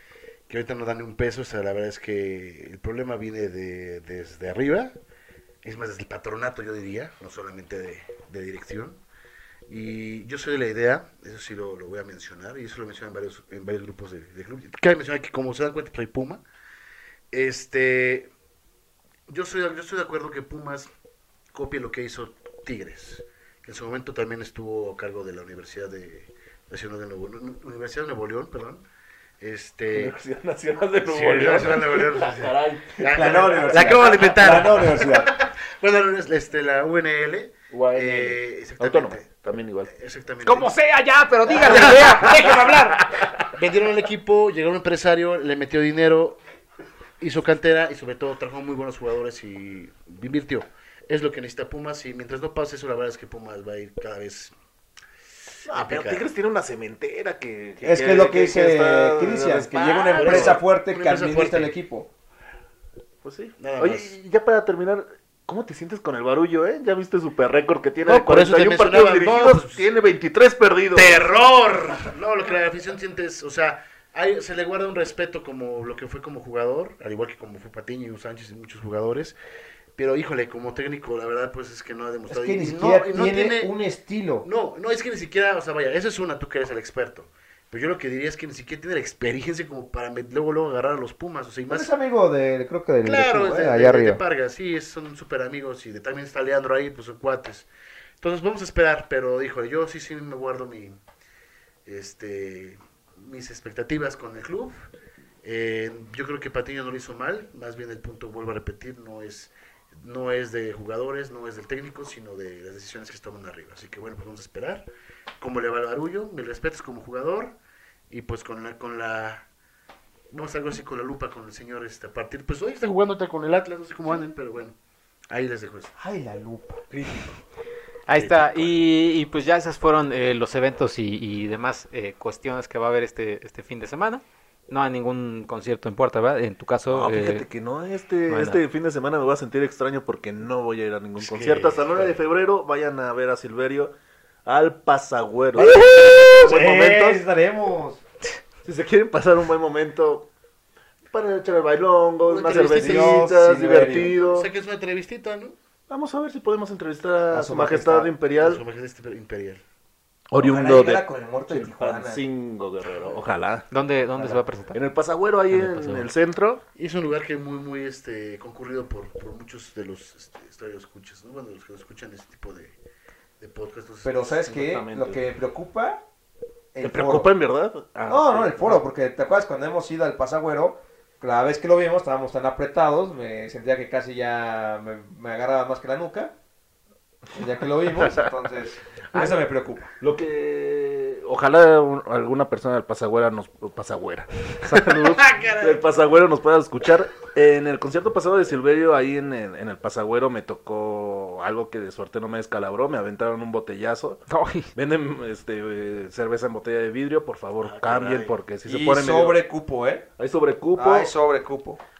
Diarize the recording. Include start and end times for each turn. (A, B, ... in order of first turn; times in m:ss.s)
0:00.5-0:05.0 A
0:05.6-0:09.0 A
0:09.7-0:16.4 A
0:17.3-0:18.3 A
0:19.3-0:20.9 A
0:21.5-0:28.8 A
0:29.4-0:30.2 A
0:30.0-0:34.7 B
0:31.0-0:39.3 A
0:33.1-0:35.4 C
0:37.7-0:39.9 B
0:39.9-0:40.8 A
0:40.4-0:42.7 D
0:41.5-0:42.9 A
0:41.6-0:43.0 C
0:42.2-0:43.5 B
0:43.5-0:46.4 A
0:47.2-0:54.6 A
0:55.7-0:56.3 A
0:55.7-1:00.6 B
0:57.8-1:02.1 C
1:00.1-1:01.7 A
1:03.2-1:11.3 B
1:03.6-1:04.2 A
1:08.1-1:09.9 A
1:10.9-1:19.4 A
1:20.0-1:23.8 A
1:22.3-1:24.5 C
1:24.4-1:31.9 A
1:31.7-1:34.2 C
1:33.0-1:37.7 A
1:38.2-1:41.0 A
1:41.8-1:44.9 A
1:45.4-1:54.9 A
1:55.4-1:57.6 A
1:58.1-1:59.5 A
2:00.3-2:04.8 A
2:05.3-2:05.9 A
2:06.0-2:06.8 C
2:06.9-2:07.2 B
2:08.1-2:17.4 D
2:08.1-2:08.8 A
2:16.9-2:23.9 B
2:18.3-2:18.6 D
2:21.2-2:22.2 A
2:24.4-2:27.2 B
2:25.6-2:28.0 C
2:28.6-2:30.3 B
2:31.1-2:34.5 B
2:32.3-2:33.4 A
2:32.6-2:34.2 C
2:34.2-2:35.6 A
2:35.9-2:38.6 B
2:37.3-2:38.1 C
2:38.4-2:39.6 A
2:40.3-2:43.7 B
2:40.4-2:42.2 C
2:43.7-2:44.8 D
2:44.7-2:46.6 B
2:45.5-2:46.1 D
2:46.8-2:52.8 A
2:53.4-2:54.4 A
2:54.0-2:56.0 C
2:54.4-2:55.2 B
2:56.7-2:57.3 C
2:56.8-2:58.8 B
2:58.1-3:06.3 C
3:07.3-3:09.9 C
3:10.0-3:29.4 B
3:14.9-3:15.8 A
3:24.3-3:24.7 D
3:27.6-3:28.3 A
3:28.7-3:30.1 C
3:30.2-3:31.1 B
3:30.8-3:31.8 C